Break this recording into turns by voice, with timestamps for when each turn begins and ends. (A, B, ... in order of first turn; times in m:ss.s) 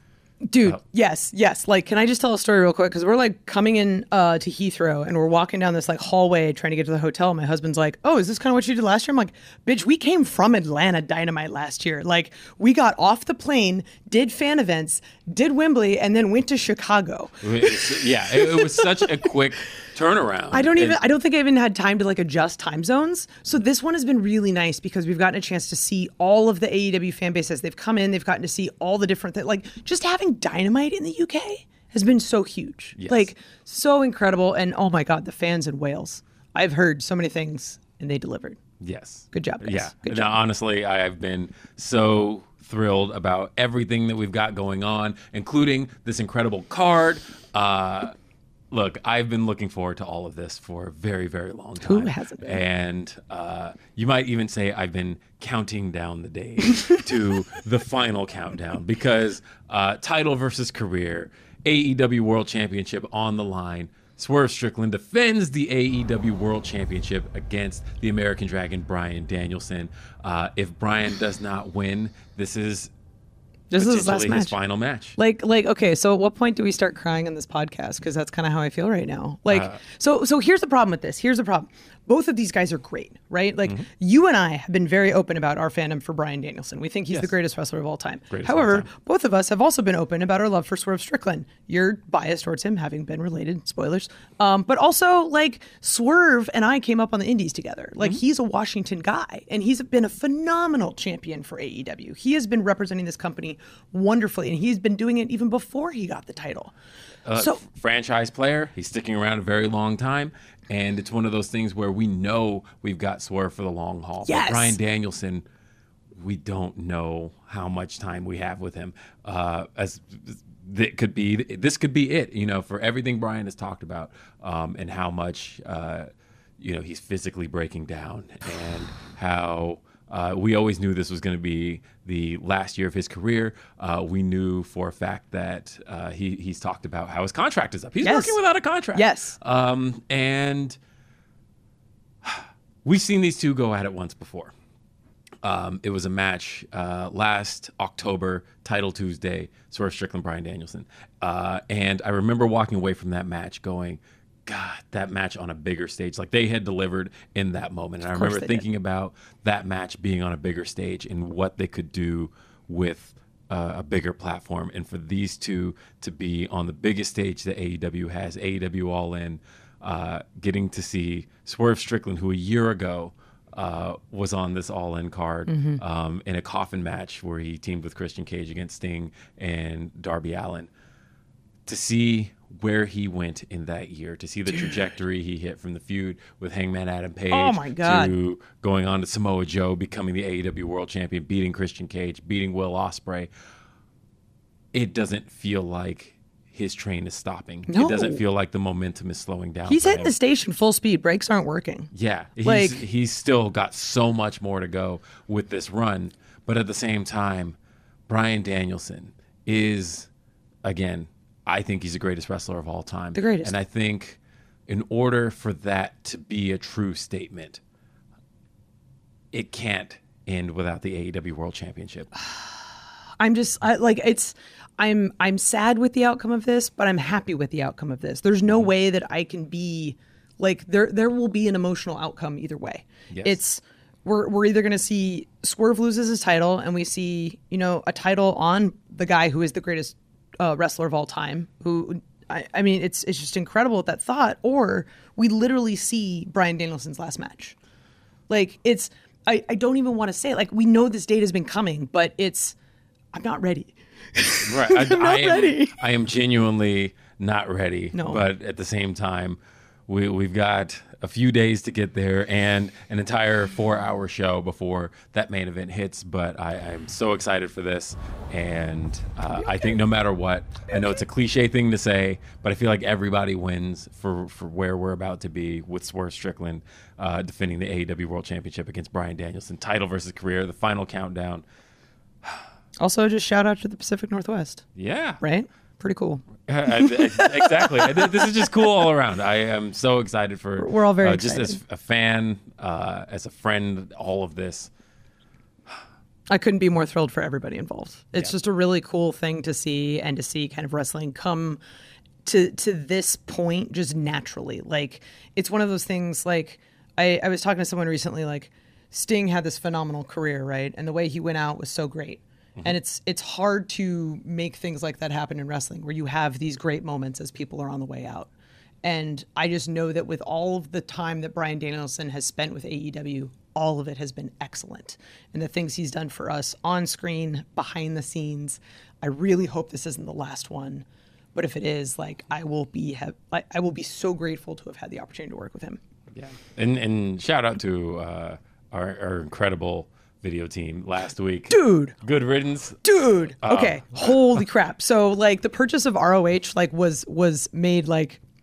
0:00.4-0:19.3 A
0:17.4-0:21.0 B
0:20.5-0:38.6 A
0:33.0-0:33.3 B
0:38.8-0:48.1 B
0:39.3-0:40.3 A
0:48.7-1:12.9 B
0:51.8-0:52.6 A
1:13.7-1:14.6 A
1:13.8-1:15.2 B
1:15.2-1:46.7 A
1:19.5-1:19.8 B
1:27.1-1:27.3 B
1:28.3-1:28.9 B
1:47.2-1:55.4 B
1:47.3-1:47.6 A
1:54.2-1:54.8 A
1:56.2-2:06.1 B
2:06.6-2:20.8 B
2:18.0-2:18.4 A
2:18.9-2:19.4 A
2:22.2-2:24.5 B
2:25.4-3:00.7 B
2:38.1-2:38.6 A
2:55.5-2:55.8 A
3:01.7-3:13.3 B
3:07.3-3:08.1 A
3:14.7-3:20.1 B
3:17.7-3:18.2 A
3:19.7-3:21.9 A
3:21.9-3:30.1 B
3:22.4-3:22.8 A
3:30.6-3:37.6 B
3:33.2-3:33.5 A
3:39.3-3:42.1 B
3:43.2-4:07.6 A
3:53.1-3:53.4 B
4:08.3-4:12.6 A
4:13.1-4:15.8 A
4:14.5-4:41.4 B
4:17.9-4:18.2 A
4:42.8-4:44.6 A
4:44.8-4:45.2 B
4:45.2-4:48.6 A
4:46.5-4:54.7 B
4:50.6-4:51.6 A
4:56.3-5:01.6 A
5:02.2-5:18.3 A
5:18.8-5:35.8 A
5:36.1-5:42.9 B
5:41.5-5:42.0 A
5:42.8-5:48.2 A
5:43.4-5:44.4 B